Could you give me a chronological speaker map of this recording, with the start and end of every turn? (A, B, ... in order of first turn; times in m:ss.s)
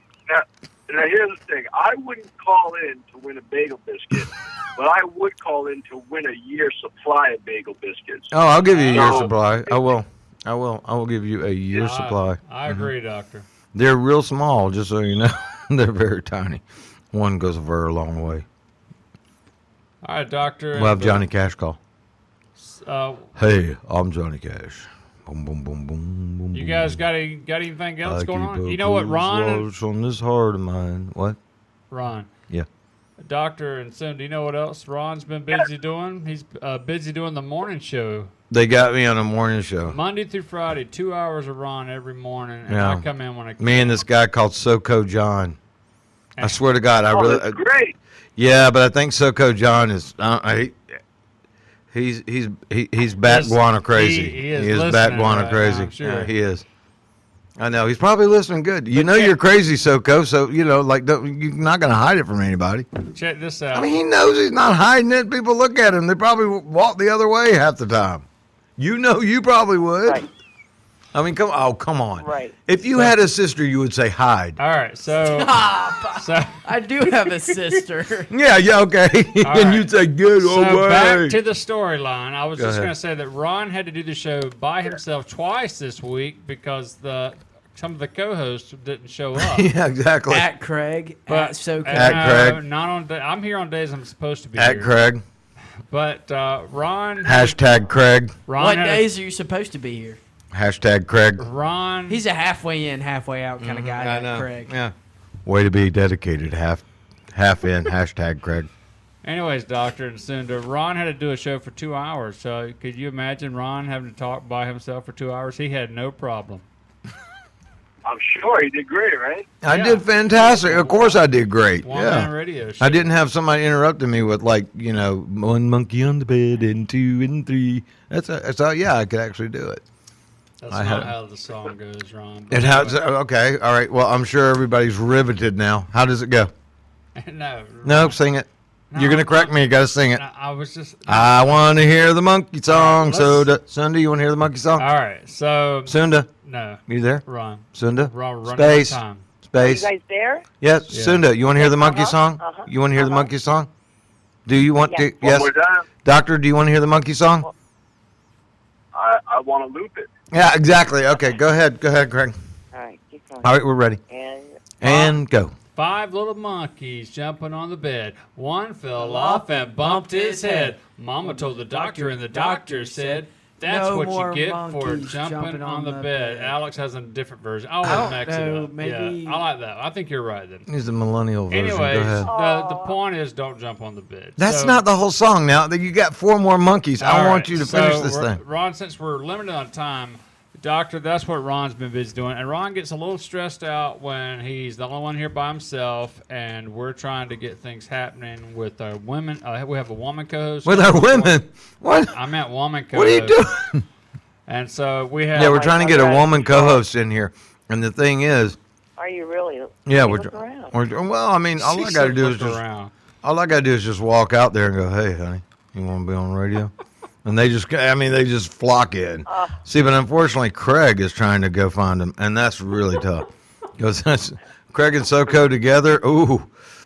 0:00.3-0:08.3 A
0:08.3-0:12.9 B
0:08.7-0:09.3 C
0:08.9-0:09.8 A
0:11.7-0:13.4 C
0:13.7-0:18.4 B
0:20.0-0:21.2 C
0:20.7-0:21.8 B
0:22.6-0:23.4 C
0:23.4-0:27.0 B
0:26.5-0:29.7 C
0:28.0-0:31.4 B
0:31.9-0:32.3 C
0:33.2-0:38.3 C
0:38.5-0:40.0 B
0:39.9-0:44.0 C
0:42.7-0:43.0 B
0:43.6-0:45.6 B
0:46.4-0:47.6 B
0:47.1-0:47.9 A
0:48.4-0:51.0 B
0:51.9-0:56.6 B
0:53.2-0:56.3 C
0:57.6-1:02.9 B
0:58.9-0:59.3 C
1:03.1-1:03.9 C
1:03.7-1:08.2 B
1:08.8-1:10.2 B
1:11.1-1:14.6 B
1:12.2-1:12.5 D
1:14.6-1:15.6 C
1:15.2-1:18.3 E
1:16.1-1:16.6 C
1:18.3-1:21.4 B
1:19.4-1:19.9 C
1:20.4-1:29.7 C
1:22.6-1:22.9 B
1:29.4-1:30.5 B
1:30.3-1:32.3 E
1:31.3-1:34.9 C
1:31.9-1:32.6 B
1:34.6-1:35.2 B
1:35.9-1:37.9 C
1:37.2-1:38.4 B
1:38.4-1:39.1 C
1:38.6-1:40.2 E
1:40.5-1:41.5 B
1:41.4-1:42.2 C
1:42.1-1:44.7 E
1:43.6-1:44.9 B
1:45.4-1:48.7 B
1:49.2-1:56.6 C
1:58.0-1:59.5 A
1:59.6-2:09.8 B
1:59.7-2:01.2 C
2:01.8-2:03.1 C
2:10.6-2:13.0 C
2:10.7-2:11.1 B
2:12.5-2:16.5 B
2:17.1-2:18.2 C
2:17.8-2:20.2 B
2:18.9-2:21.8 C
2:21.1-2:24.9 B
2:22.7-2:23.5 C
2:24.8-2:29.2 C
2:25.8-2:26.3 B
2:26.9-2:27.2 B
2:27.7-2:29.8 B
2:29.6-2:30.4 D
2:30.6-2:33.7 B
2:30.9-2:31.2 C
2:31.5-2:33.3 D
2:34.4-2:35.5 B
2:34.8-2:35.1 D
2:35.2-2:35.8 A
2:36.0-2:37.5 B
2:38.9-2:40.1 A
2:40.3-2:42.3 B
2:42.7-2:43.6 D
2:43.4-2:44.0 B
2:44.1-2:44.6 D
2:44.8-2:45.5 B
2:44.8-2:45.2 C
2:45.7-3:00.7 C
2:49.0-2:56.6 E
2:57.8-2:58.1 B
2:57.8-2:59.4 E
3:00.7-3:02.3 B
3:01.5-3:04.8 C
3:02.2-3:03.0 D
3:04.4-3:08.4 B
3:07.0-3:21.3 C
3:20.6-3:22.2 B
3:22.1-3:23.4 C
3:22.9-3:23.8 B
3:24.5-3:25.8 C
3:25.3-3:28.6 B
3:25.4-3:26.8 D
3:29.0-3:30.7 D
3:29.8-3:32.6 B
3:31.6-3:32.9 C
3:33.2-3:36.7 B
3:37.2-3:43.2 B
3:39.2-3:39.6 D
3:43.8-3:46.5 B